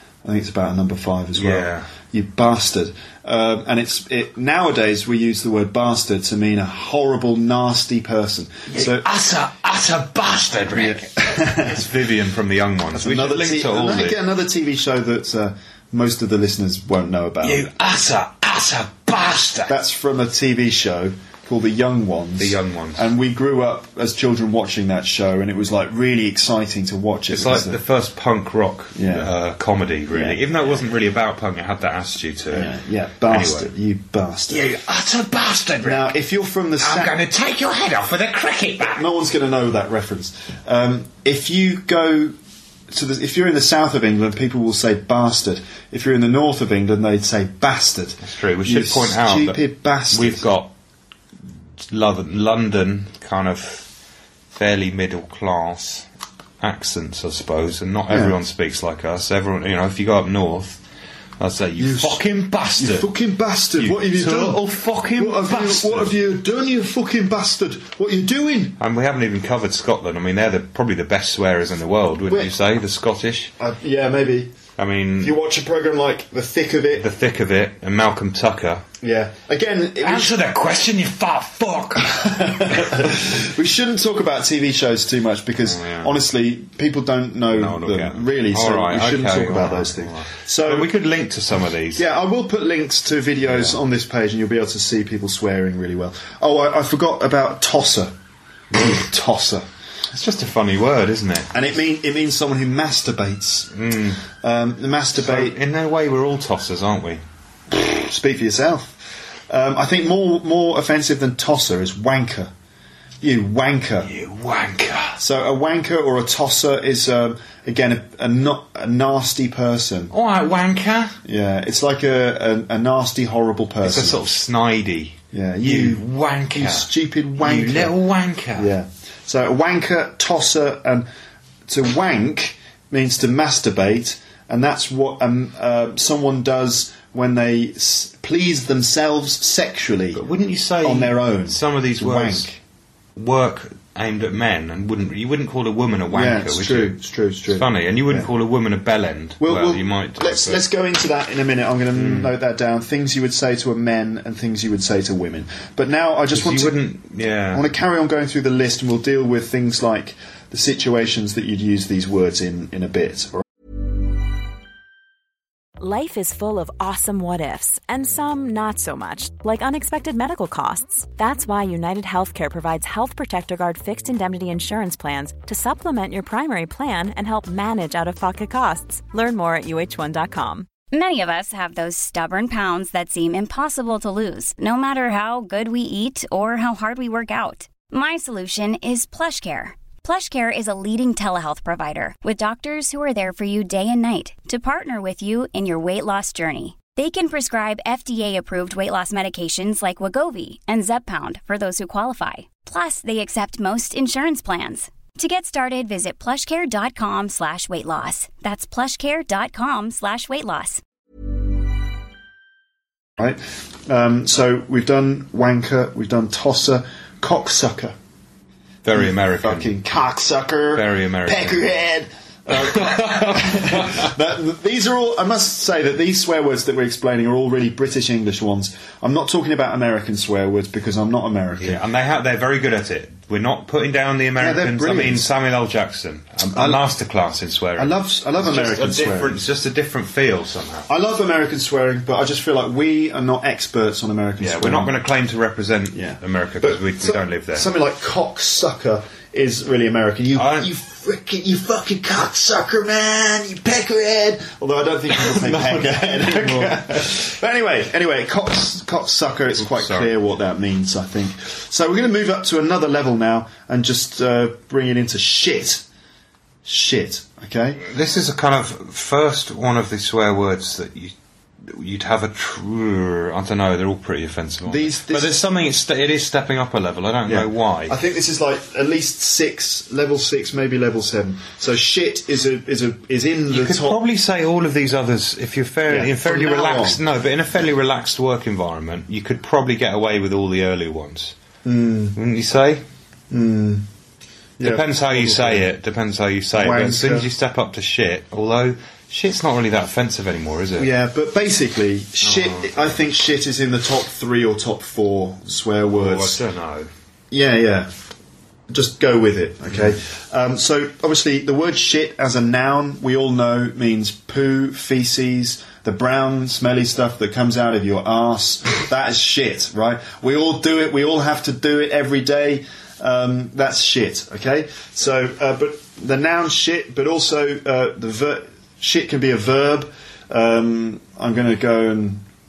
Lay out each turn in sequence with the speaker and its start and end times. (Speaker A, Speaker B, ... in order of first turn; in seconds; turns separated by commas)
Speaker A: 0.2-9.1, Speaker B: 1.3-1.9, Speaker B: 8.7-14.2, Speaker A: 10.7-11.8, Speaker A: 12.9-17.6, Speaker B: 17.4-19.8, Speaker A: 19.7-27.8, Speaker B: 22.4-23.1, Speaker B: 27.3-32.7, Speaker A: 28.9-29.3, Speaker A: 30.1-30.4, Speaker A: 32.5-34.7, Speaker B: 33.3-33.7, Speaker B: 34.5-36.1, Speaker A: 35.8-37.2, Speaker B: 36.8-39.1, Speaker A: 38.8-42.4, Speaker A: 42.9-50.5, Speaker B: 48.2-50.7, Speaker B: 51.8-53.9, Speaker B: 54.5-56.1, Speaker B: 56.6-60.8, Speaker A: 58.1-58.4, Speaker B: 61.4-63.1, Speaker A: 61.8-62.2, Speaker A: 62.8-68.8, Speaker B: 63.8-66.1, Speaker B: 68.8-73.5, Speaker A: 72.3-72.5, Speaker A: 73.6-74.5, Speaker B: 74.8-75.3, Speaker A: 75.2-77.0, Speaker B: 76.9-78.8, Speaker A: 79.0-80.3, Speaker B: 80.0-83.2, Speaker A: 82.1-90.9, Speaker B: 85.6-86.2, Speaker B: 87.5-92.0, Speaker A: 92.0-98.1, Speaker B: 93.4-93.8, Speaker A: 98.7-99.7, Speaker B: 100.1-101.5, Speaker A: 101.5-103.7, Speaker B: 103.7-104.2, Speaker A: 104.2-105.5, Speaker B: 105.1-107.2, Speaker A: 107.8-112.5, Speaker A: 113.2-114.1, Speaker B: 114.0-115.2, Speaker A: 115.2-120.1, Speaker B: 120.1-121.2, Speaker A: 121.2-124.3, Speaker B: 123.8-128.7, Speaker A: 125.3-127.9, Speaker A: 128.5-131.1, Speaker A: 131.7-140.2, Speaker B: 140.1-142.6, Speaker A: 140.8-142.5, Speaker B: 143.1-150.6, Speaker A: 146.1-148.3, Speaker A: 149.4-156.8, Speaker B: 151.9-152.3, Speaker B: 156.3-157.7, Speaker A: 157.5-163.4, Speaker C: 165.8-180.7, Speaker D: 180.9-210.8, Speaker A: 213.2-217.9, Speaker B: 218.8-219.7, Speaker A: 218.9-231.8, Speaker B: 220.7-221.7, Speaker B: 222.5-224.1, Speaker B: 231.6-240.9, Speaker A: 234.4-235.3, Speaker A: 236.5-236.8, Speaker A: 237.8-239.4, Speaker A: 240.9-244.9, Speaker B: 244.4-247.7, Speaker A: 245.9-265.8, Speaker B: 250.3-250.7, Speaker B: 255.1-257.1, Speaker B: 259.6-260.1, Speaker A: 266.6-267.8, Speaker B: 267.8-271.1, Speaker B: 271.6-278.0, Speaker A: 274.6-275.4, Speaker A: 277.2-284.0, Speaker B: 283.5-291.3, Speaker A: 285.9-287.0, Speaker A: 291.6-292.2, Speaker B: 292.1-292.8, Speaker A: 293.3-293.9, Speaker A: 294.6-295.7, Speaker B: 294.6-300.9, Speaker A: 296.5-297.3, Speaker A: 300.8-306.4, Speaker B: 302.2-303.0, Speaker B: 305.9-306.9, Speaker A: 307.3-307.9, Speaker A: 308.7-332.2, Speaker B: 309.7-309.9